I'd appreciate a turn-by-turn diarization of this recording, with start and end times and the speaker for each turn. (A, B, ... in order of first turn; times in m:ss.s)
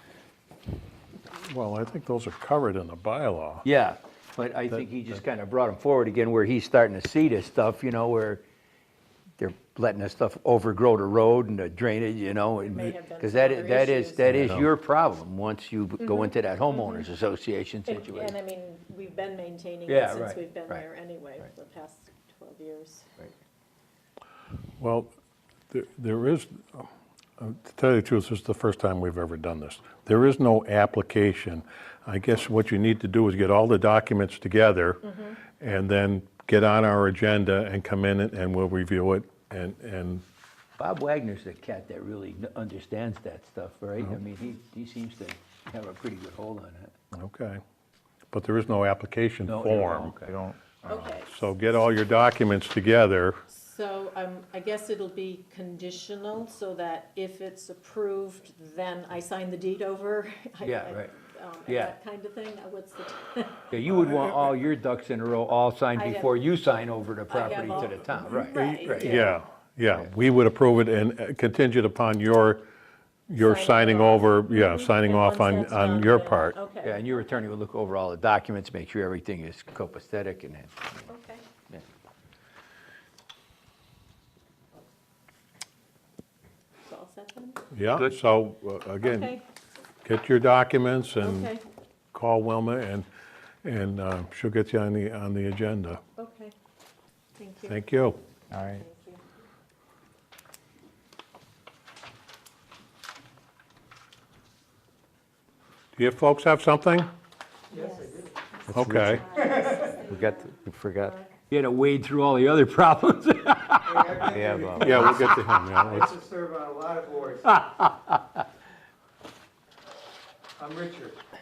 0:01.3-0:03.6 A
0:03.6-0:08.4 B
0:09.4-0:18.3 B
0:12.7-0:14.4 C
0:14.2-0:14.7 A
0:16.0-0:17.1 C
0:17.9-0:23.1 C
0:19.9-0:20.8 B
0:24.8-0:25.1 A
0:25.7-0:40.2 A
0:35.0-0:35.4 C
0:40.8-0:46.9 B
0:47.1-0:47.6 A
0:48.3-0:50.1 A
0:49.4-0:50.4 B
0:50.2-0:50.6 D
0:50.9-0:51.3 C
0:50.9-0:53.4 A
0:53.5-1:03.6 C
1:00.6-1:01.1 B
1:01.7-1:01.9 B
1:03.7-1:09.2 B
1:06.0-1:06.4 C
1:07.3-1:09.4 C
1:08.3-1:12.6 A
1:13.3-1:16.6 A
1:13.4-1:17.2 C
1:16.8-1:21.1 B
1:21.1-1:21.4 C
1:26.8-1:27.6 C
1:27.7-1:29.3 A
1:29.0-1:29.4 C
1:30.0-1:31.5 A
1:31.2-1:31.6 C
1:32.1-1:33.0 A
1:33.6-1:36.0 A
1:36.2-1:36.5 C
1:37.4-1:37.9 C
1:37.6-1:38.2 A
1:38.5-1:38.8 D
1:38.5-1:39.2 C
1:46.0-1:47.1 A
1:47.7-1:48.4 E
1:47.8-1:48.0 C
1:48.7-1:49.2 D
1:48.7-1:49.2 A
1:49.1-1:50.1 E
1:49.3-1:50.4 C
1:50.1-1:51.2 D
1:51.5-1:55.3 B
1:53.9-1:57.6 E
1:54.4-1:55.2 D
1:54.7-1:56.1 A
1:57.6-1:58.2 B
2:00.6-2:01.2 E